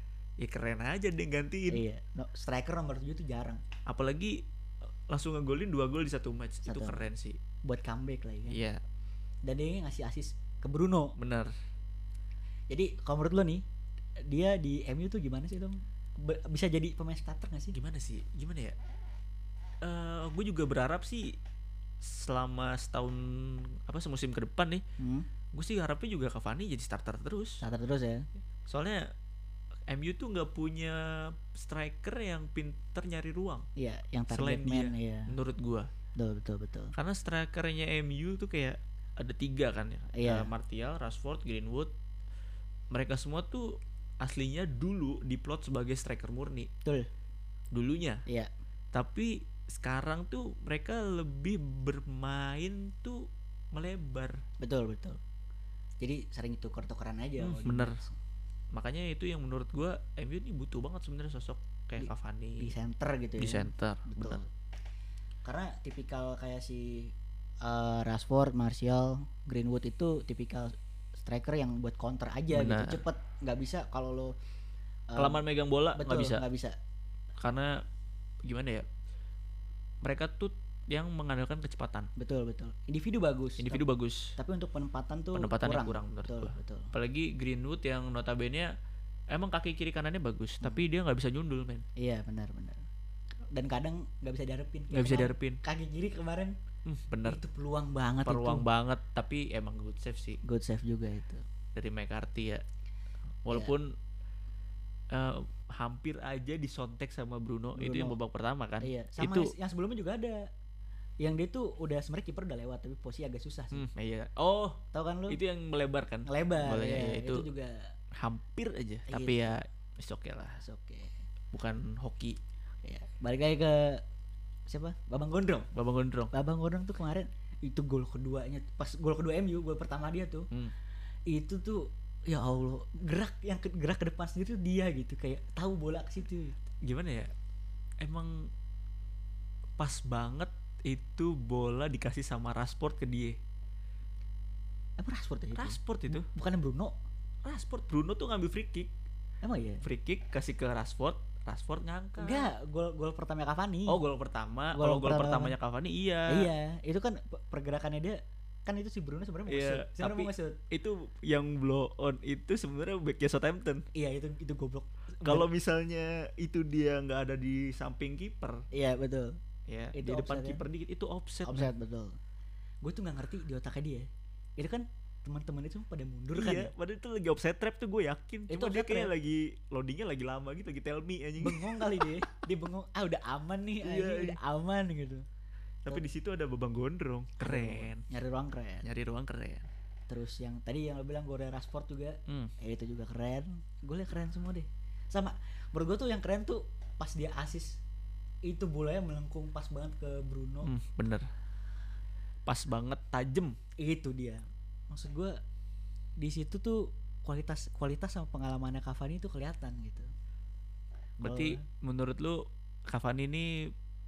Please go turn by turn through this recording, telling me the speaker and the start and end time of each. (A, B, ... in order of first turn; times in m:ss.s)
0:00.4-0:01.8 A
0:01.7-0:03.6 B
0:03.8-0:04.4 A
0:05.1-0:07.4 A
0:06.6-0:07.0 B
0:07.6-0:08.6 B
0:08.5-0:08.8 A
0:09.4-0:11.2 B
0:11.2-0:11.5 A
0:12.7-0:13.6 B
0:14.2-0:17.8 B
0:17.7-0:18.8 A
0:19.8-0:21.4 A
0:22.0-0:24.8 A
0:25.0-0:25.3 B
0:25.5-0:27.6 A
0:27.6-0:28.2 B
0:28.6-0:29.1 A
0:29.9-0:33.7 A
0:33.8-0:35.3 B
0:34.3-0:35.9 A
0:36.2-0:36.9 B
0:36.9-0:41.9 A
0:40.1-0:40.5 B
0:42.9-0:46.7 A
0:47.7-0:48.2 A
0:48.9-0:54.4 A
0:54.6-0:55.2 B
0:56.0-0:58.2 B
0:57.4-0:58.0 A
0:58.7-1:02.7 A
1:02.0-1:04.5 B
1:03.4-1:04.4 A
1:05.4-1:14.3 B
1:12.5-1:13.0 A
1:15.1-1:15.4 B
1:15.2-1:16.4 A
1:15.9-1:16.8 B
1:17.4-1:17.8 A
1:18.4-1:18.8 A
1:20.0-1:22.1 A
1:22.2-1:26.9 B
1:23.6-1:24.3 A
1:25.3-1:28.7 A
1:29.3-1:31.8 A
1:32.0-1:32.8 B
1:33.5-1:36.6 B
1:34.9-1:35.6 A
1:36.8-1:37.4 A
1:37.2-1:38.6 B
1:38.2-1:40.4 A
1:40.4-1:41.4 B
1:41.7-1:42.6 A
1:43.4-1:44.0 A
1:45.1-1:49.5 A
1:47.8-1:48.2 B
1:48.8-1:50.5 B
1:51.2-1:53.9 B
1:53.7-1:57.5 A
1:54.9-1:55.4 B
1:56.2-1:57.9 B
1:58.1-2:00.6 A
1:59.1-1:59.6 B
2:00.6-2:01.1 B
2:01.5-2:02.4 A
2:02.8-2:04.0 B
2:04.7-2:05.7 B
2:05.7-2:06.3 A
2:06.3-2:10.5 B
2:11.3-2:16.6 B
2:16.8-2:17.3 A
2:18.0-2:18.5 A
2:19.8-2:23.4 A
2:25.0-2:27.0 B
2:25.5-2:26.3 A
2:27.4-2:28.9 A
2:29.4-2:29.8 B
2:29.8-2:32.5 A
2:32.2-2:34.0 B
2:33.9-2:36.5 A
2:34.7-2:35.6 B
2:36.3-2:40.6 B
2:39.5-2:43.8 A
2:43.9-2:45.5 B
2:45.2-2:48.7 A
2:48.7-2:49.4 B
2:49.7-2:51.7 A
2:49.9-2:50.6 B
2:51.4-2:52.2 B
2:52.8-2:56.7 B
2:56.3-3:02.2 A
2:58.5-2:59.1 B
3:01.4-3:05.2 B
3:03.8-3:04.4 A
3:05.8-3:08.0 A
3:07.4-3:08.9 B
3:08.8-3:09.7 A
3:10.1-3:17.8 B
3:12.3-3:12.5 A
3:18.4-3:20.7 B
3:20.6-3:21.3 A
3:22.4-3:23.6 A
3:23.8-3:25.4 B
3:26.2-3:30.1 B
3:31.2-3:31.6 B
3:31.2-3:33.7 A